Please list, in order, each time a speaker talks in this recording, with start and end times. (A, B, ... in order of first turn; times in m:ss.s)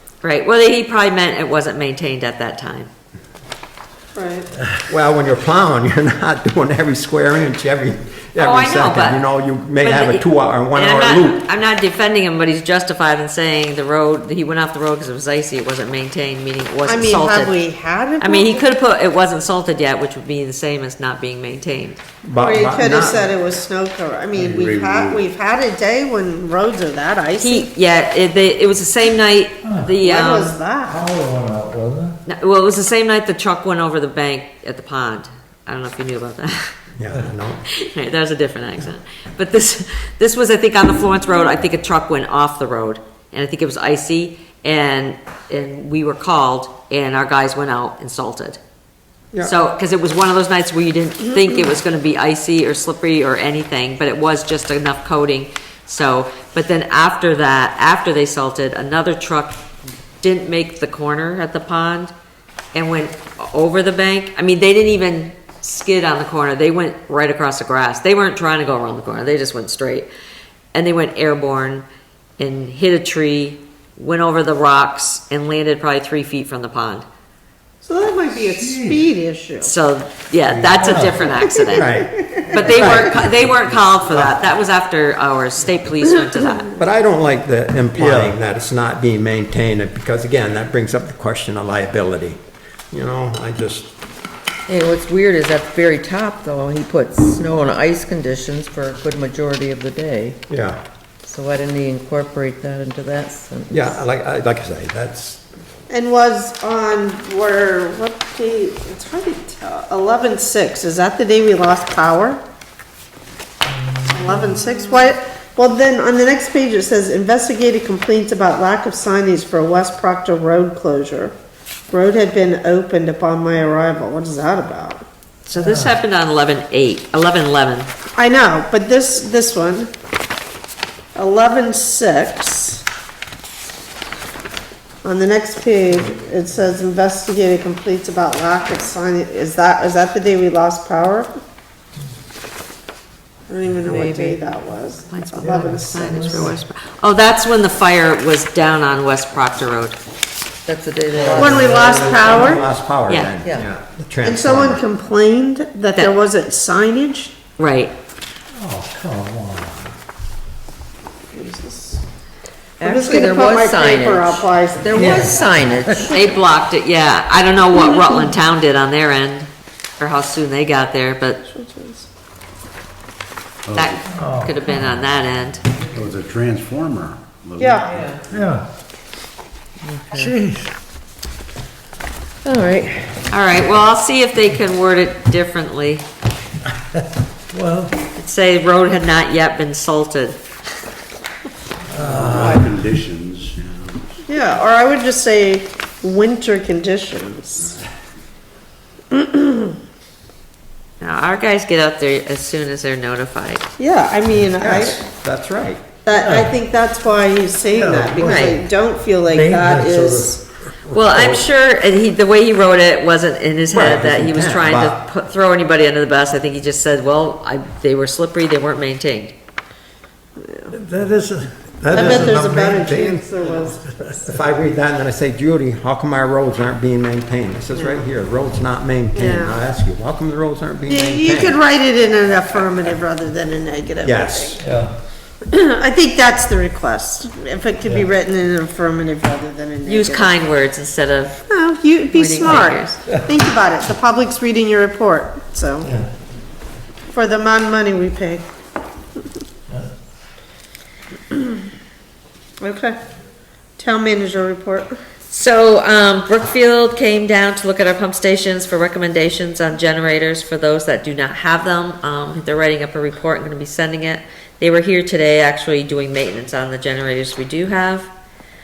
0:00.2-0:02.9 A
0:04.1-0:04.5 B
0:04.9-0:11.4 C
0:08.4-0:09.2 A
0:09.8-0:17.6 A
0:16.8-0:18.6 B
0:18.2-0:22.0 A
0:22.2-0:23.3 C
0:22.4-0:27.7 B
0:24.3-0:25.2 D
0:27.4-0:30.5 A
0:29.6-0:29.9 E
0:30.0-0:31.0 B
0:30.8-0:32.2 E
0:32.2-0:36.7 A
0:37.0-0:37.6 C
0:37.7-0:48.6 A
0:49.4-0:59.6 A
1:00.2-1:02.1 A
1:02.7-1:10.1 A
1:10.7-1:11.8 A
1:12.4-1:17.0 A
1:17.8-1:19.7 B
1:18.4-1:19.0 E
1:19.6-1:21.9 A
1:20.5-1:21.1 C
1:20.8-1:21.2 E
1:20.9-1:23.0 B
1:21.7-1:23.2 C
1:22.5-1:26.7 A
1:26.8-1:33.9 C
1:28.0-1:28.4 E
1:34.7-1:40.4 F
1:40.5-1:40.8 C
1:41.2-1:44.0 F
1:43.7-1:45.4 C
1:45.9-1:52.4 B
1:53.8-1:54.6 E
1:54.0-2:01.3 B
2:01.9-2:05.0 B
2:05.4-2:07.9 A
2:05.5-2:06.0 E
2:08.1-2:09.9 B
2:11.1-2:12.8 B
2:15.0-2:21.3 B
2:23.5-2:26.5 B
2:23.9-2:24.4 F
2:25.1-2:30.0 A
2:25.4-2:26.5 E
2:30.6-2:32.6 F
2:31.1-2:34.8 C
2:31.2-2:32.6 B
2:33.1-2:33.3 A
2:34.2-2:37.3 B
2:37.6-2:37.9 A
2:38.5-2:39.9 E
2:41.3-2:42.0 B
2:42.8-2:46.1 F
2:42.8-2:45.4 B
2:44.9-2:46.2 E
2:46.1-2:51.4 A
2:51.5-2:52.1 B
2:53.6-2:54.0 D
2:53.7-2:55.6 A
2:54.1-2:55.0 E
2:55.9-2:58.6 D
2:57.6-2:58.0 B
2:58.3-2:58.6 E
2:59.8-3:00.3 F
3:00.1-3:00.7 E
3:02.4-3:03.1 F
3:03.3-3:06.0 A
3:07.5-3:07.9 E
3:08.2-3:10.4 A
3:11.9-3:12.6 E
3:11.9-3:14.2 D
3:14.2-3:17.8 B
3:19.1-3:19.7 B
3:21.0-3:23.6 A
3:23.8-3:25.0 B
3:24.6-3:25.8 C
3:26.0-3:30.4 B
3:26.1-3:26.5 E
3:27.7-3:28.6 E
3:28.2-3:28.6 A
3:29.2-3:31.4 E
3:30.9-3:39.3 A
3:33.7-3:35.0 C
3:40.4-3:40.7 B
3:40.7-3:44.2 E
3:41.8-3:42.4 C
3:41.9-3:44.0 B
3:44.2-3:51.6 C
3:47.7-3:48.0 B
3:49.1-3:49.6 B
3:50.9-3:54.6 B
3:54.0-3:54.6 C
3:54.6-3:54.9 E
3:55.5-4:00.4 B
3:59.8-4:01.4 A
4:01.5-4:05.9 B
4:02.1-4:03.0 A
4:05.8-4:06.1 E
4:07.1-4:08.4 B
4:12.6-4:13.0 B
4:13.8-4:15.0 B
4:15.3-4:28.1 A